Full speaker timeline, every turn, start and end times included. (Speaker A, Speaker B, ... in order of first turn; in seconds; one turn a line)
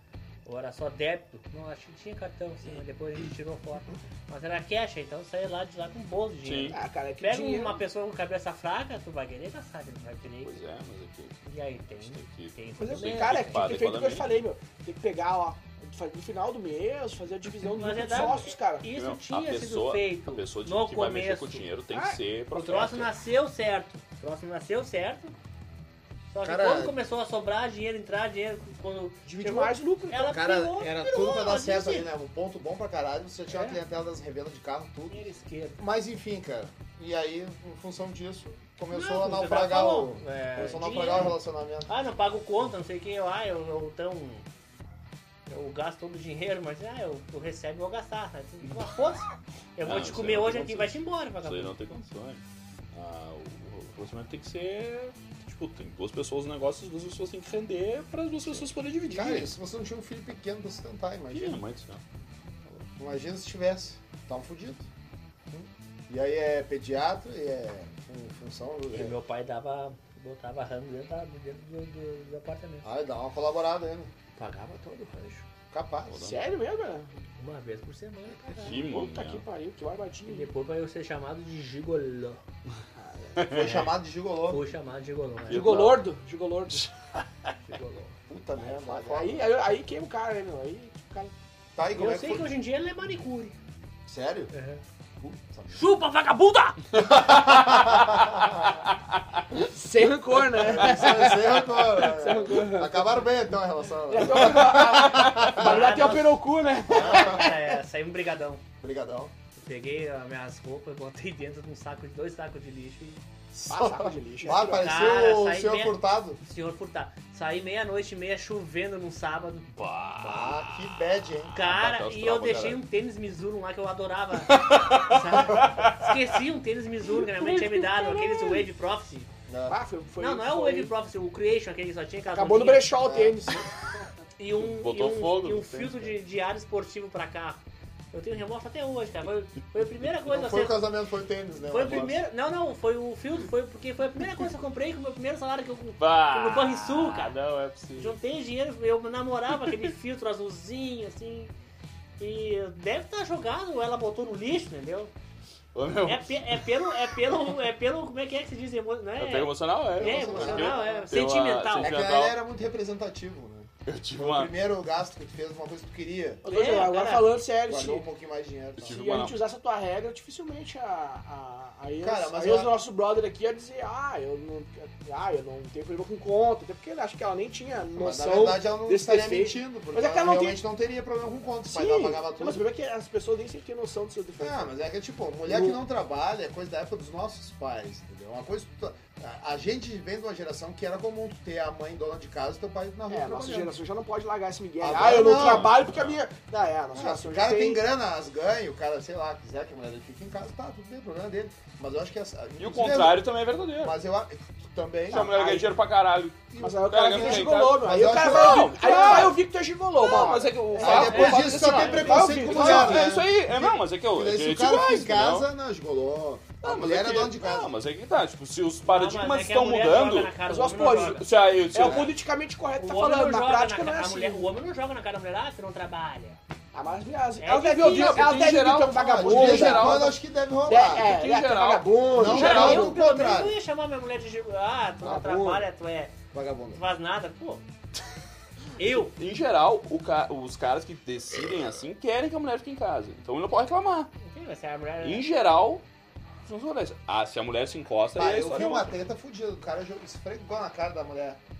Speaker A: 0.5-10.6
Speaker B: 6.4-6.8
Speaker C: 6.7-7.8
Speaker B: 10.4-11.4
Speaker A: 11.4-13.6
Speaker B: 12.0-14.4
Speaker C: 12.8-18.8
Speaker A: 17.7-21.6
Speaker B: 18.9-23.1
Speaker C: 21.9-22.2
Speaker A: 22.5-25.3
Speaker A: 26.3-32.1
Speaker D: 26.4-26.9
Speaker C: 29.2-30.3
Speaker D: 30.2-41.9
Speaker A: 33.5-33.8
Speaker A: 35.1-35.8
Speaker A: 38.9-41.4
Speaker A: 41.9-44.5
Speaker A: 45.5-51.9
Speaker B: 49.8-52.4
Speaker B: 52.9-59.5
Speaker D: 58.5-61.6
Speaker B: 61.3-62.0
Speaker D: 62.9-64.8
Speaker D: 65.5-69.1
Speaker A: 68.9-72.9
Speaker D: 72.8-74.1
Speaker A: 74.3-75.4
Speaker D: 75.7-76.3
Speaker B: 76.1-76.4
Speaker C: 76.2-77.1
Speaker A: 77.4-78.8
Speaker B: 78.6-79.4
Speaker C: 78.7-80.5
Speaker A: 80.2-82.4
Speaker C: 83.0-83.5
Speaker B: 83.4-83.9
Speaker D: 83.5-84.6
Speaker A: 84.5-85.7
Speaker B: 85.5-86.1
Speaker C: 85.5-86.9
Speaker D: 87.7-89.5
Speaker C: 88.6-91.3
Speaker D: 91.8-92.5
Speaker A: 91.9-93.5
Speaker D: 94.1-94.5
Speaker A: 94.5-94.8
Speaker D: 95.2-95.8
Speaker A: 95.7-96.8
Speaker D: 96.9-98.8
Speaker B: 97.5-97.9
Speaker C: 99.5-103.3
Speaker D: 100.5-106.1
Speaker C: 104.1-107.5
Speaker A: 105.5-108.6
Speaker D: 106.9-107.5
Speaker D: 108.8-109.3
Speaker A: 109.6-113.2
Speaker D: 113.5-116.4
Speaker C: 113.7-114.9
Speaker A: 114.8-119.7
Speaker B: 119.7-120.9
Speaker D: 120.2-121.6
Speaker A: 121.5-129.3
Speaker B: 121.5-122.8
Speaker B: 124.5-126.1
Speaker B: 127.5-127.9
Speaker D: 129.5-129.8
Speaker C: 129.7-130.9
Speaker A: 130.2-132.9
Speaker C: 132.3-133.6
Speaker D: 133.0-133.4
Speaker A: 134.4-140.8
Speaker B: 134.5-136.2
Speaker D: 140.2-142.2
Speaker A: 141.7-147.3
Speaker B: 146.0-148.2
Speaker A: 147.9-151.5
Speaker A: 152.2-155.1
Speaker B: 155.7-157.1
Speaker A: 156.0-161.9
Speaker B: 159.2-162.4
Speaker D: 160.0-161.1
Speaker D: 161.7-166.4
Speaker B: 163.8-164.5
Speaker C: 166.4-168.1
Speaker A: 166.4-167.3
Speaker D: 167.6-169.0
Speaker B: 168.8-169.4
Speaker C: 168.8-180.6
Speaker D: 172.0-172.7
Speaker D: 177.9-182.6
Speaker C: 181.7-184.7
Speaker D: 184.4-193.8
Speaker C: 185.5-185.8
Speaker C: 193.1-197.8
Speaker D: 194.8-195.8
Speaker B: 195.2-196.2
Speaker D: 196.9-203.2
Speaker B: 202.6-204.0
Speaker D: 203.8-205.6
Speaker B: 205.1-209.4
Speaker C: 205.1-205.7
Speaker D: 206.5-209.4
Speaker C: 206.6-213.2
Speaker B: 210.0-215.5
Speaker D: 210.8-217.7
Speaker A: 210.9-212.3
Speaker B: 216.6-220.4
Speaker A: 218.8-221.2
Speaker C: 220.4-224.5
Speaker B: 220.9-222.1
Speaker D: 221.8-222.1
Speaker A: 222.8-226.4
Speaker C: 226.7-230.1
Speaker A: 227.4-228.6
Speaker B: 227.7-230.1
Speaker D: 228.9-231.1
Speaker C: 230.7-233.0
Speaker B: 230.7-232.8
Speaker D: 232.1-233.6
Speaker A: 232.3-236.2
Speaker D: 235.0-235.7
Speaker D: 236.3-236.8
Speaker A: 236.7-237.6
Speaker A: 238.8-239.1
Speaker B: 239.2-244.1
Speaker A: 244.2-245.2
Speaker B: 245.0-245.8
Speaker B: 246.4-248.9
Speaker D: 248.1-251.4